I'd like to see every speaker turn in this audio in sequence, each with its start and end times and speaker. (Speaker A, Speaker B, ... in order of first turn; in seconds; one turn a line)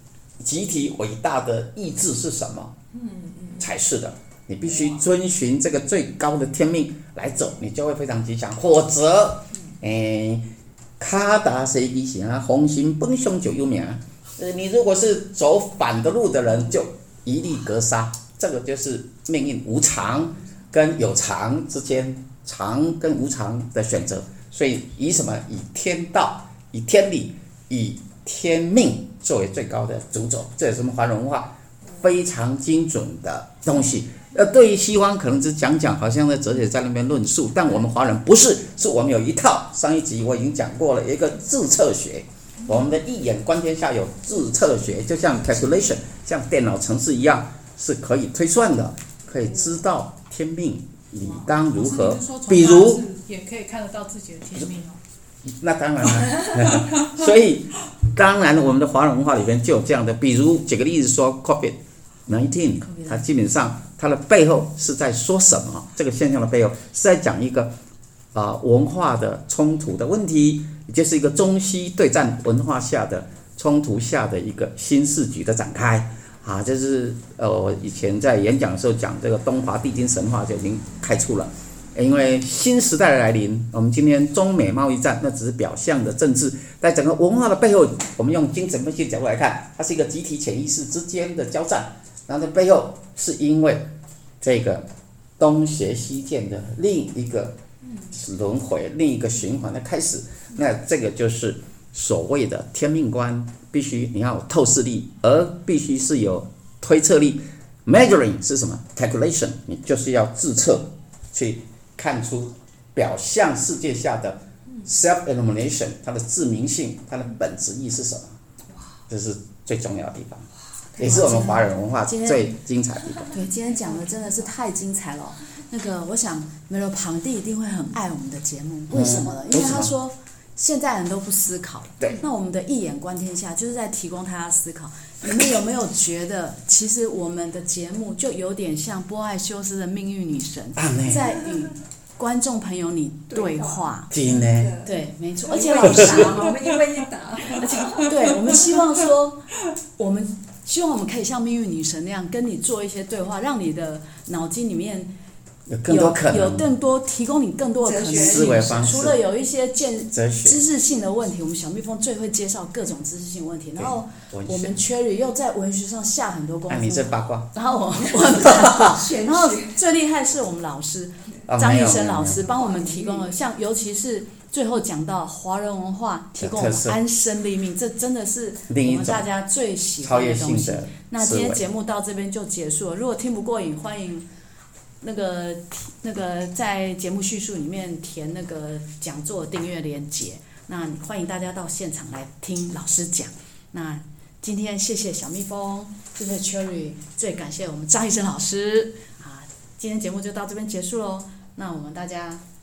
Speaker A: 0.4-2.8
Speaker B: 2.9-3.7
Speaker A: 3.6-53.0
Speaker C: 51.2-55.0
Speaker A: 55.5-67.7
Speaker A: 68.3-94.9
Speaker A: 95.4-97.6
Speaker A: 98.1-118.4
Speaker A: 119.1-120.5
Speaker A: 121.0-123.3
Speaker D: 121.0-122.6
Speaker D: 123.3-144.1
Speaker A: 128.9-129.9
Speaker A: 140.8-141.4
Speaker B: 143.3-148.3
Speaker A: 144.1-144.7
Speaker D: 144.8-146.7
Speaker A: 145.8-146.3
Speaker D: 147.5-149.4
Speaker D: 150.0-155.1
Speaker A: 155.7-156.7
Speaker D: 155.9-184.3
Speaker B: 157.8-159.0
Speaker A: 158.1-159.2
Speaker A: 160.1-160.6
Speaker A: 163.8-164.8
Speaker A: 166.7-167.5
Speaker B: 168.4-169.8
Speaker A: 171.5-172.4
Speaker B: 172.4-173.3
Speaker A: 176.4-177.0
Speaker A: 178.7-179.2
Speaker A: 180.0-181.6
Speaker D: 185.0-202.4